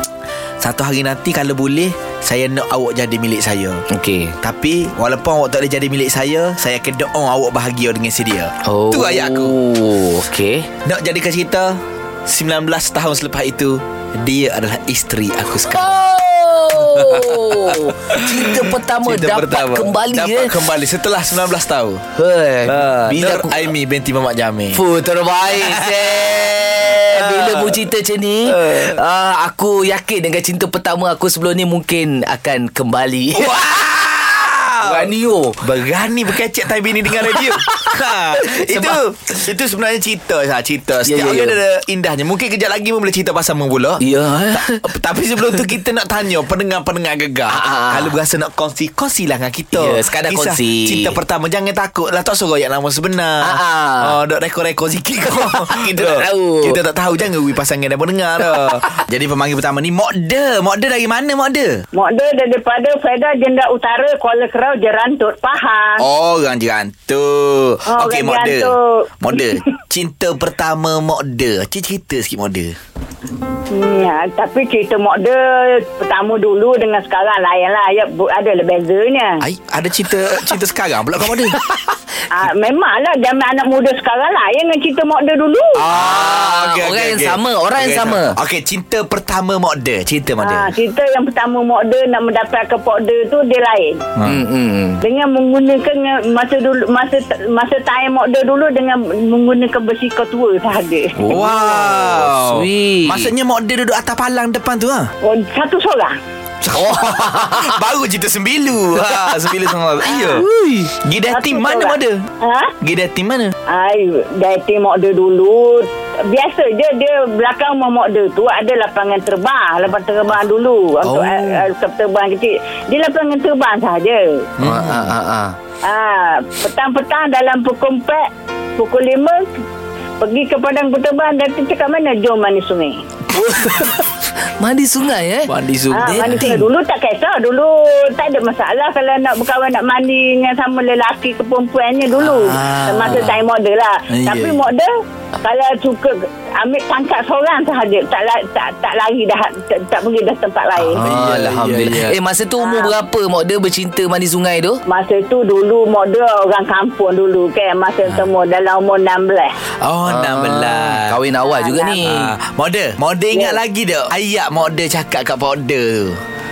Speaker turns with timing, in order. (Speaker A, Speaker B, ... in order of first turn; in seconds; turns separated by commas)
Speaker A: 0.6-3.8, Speaker B: 3.9-4.3, Speaker A: 4.4-9.6, Speaker B: 8.7-10.7, Speaker A: 10.8-16.0, Speaker B: 15.7-20.5, Speaker A: 16.8-22.0, Speaker B: 22.2-23.5, Speaker A: 22.7-24.8, Speaker B: 24.8-33.5, Speaker A: 25.5-27.8, Speaker A: 28.5-29.0, Speaker A: 33.3-61.8, Speaker B: 34.9-35.6, Speaker B: 37.3-37.8, Speaker B: 38.4-39.0, Speaker B: 41.1-41.6, Speaker B: 44.0-44.8, Speaker B: 47.5-48.1, Speaker B: 49.7-51.1, Speaker B: 53.4-54.1, Speaker B: 55.9-56.8, Speaker C: 61.9-66.0, Speaker A: 66.0-72.7, Speaker C: 67.9-69.6, Speaker C: 73.7-79.4, Speaker A: 79.4-81.6, Speaker C: 82.3-85.8, Speaker A: 85.8-90.7, Speaker B: 86.0-88.3, Speaker C: 90.4-94.0, Speaker B: 94.3-95.0, Speaker C: 95.0-101.3, Speaker B: 101.2-103.3, Speaker A: 101.3-105.1, Speaker C: 105.2-106.2, Speaker A: 106.6-110.4, Speaker B: 106.9-107.5, Speaker B: 110.3-110.9, Speaker A: 111.0-112.3, Speaker C: 111.3-112.7, Speaker A: 112.8-113.5, Speaker C: 113.7-124.4, Speaker B: 121.0-121.6, Speaker A: 124.6-125.1, Speaker B: 124.6-125.6, Speaker C: 125.8-128.2, Speaker C: 128.8-129.5, Speaker C: 130.2-133.0, Speaker B: 133.5-133.9, Speaker B: 134.6-135.5, Speaker A: 135.5-136.5, Speaker C: 135.9-144.9, Speaker B: 136.1-136.7, Speaker A: 142.2-143.3, Speaker A: 144.1-144.7, Speaker C: 145.4-151.0, Speaker B: 150.8-154.8, Speaker A: 151.0-152.2, Speaker C: 152.6-152.9, Speaker C: 154.9-159.6, Speaker A: 159.8-161.2, Speaker B: 160.1-162.2, Speaker C: 161.4-162.0, Speaker A: 162.0-166.2, Speaker C: 163.3-163.6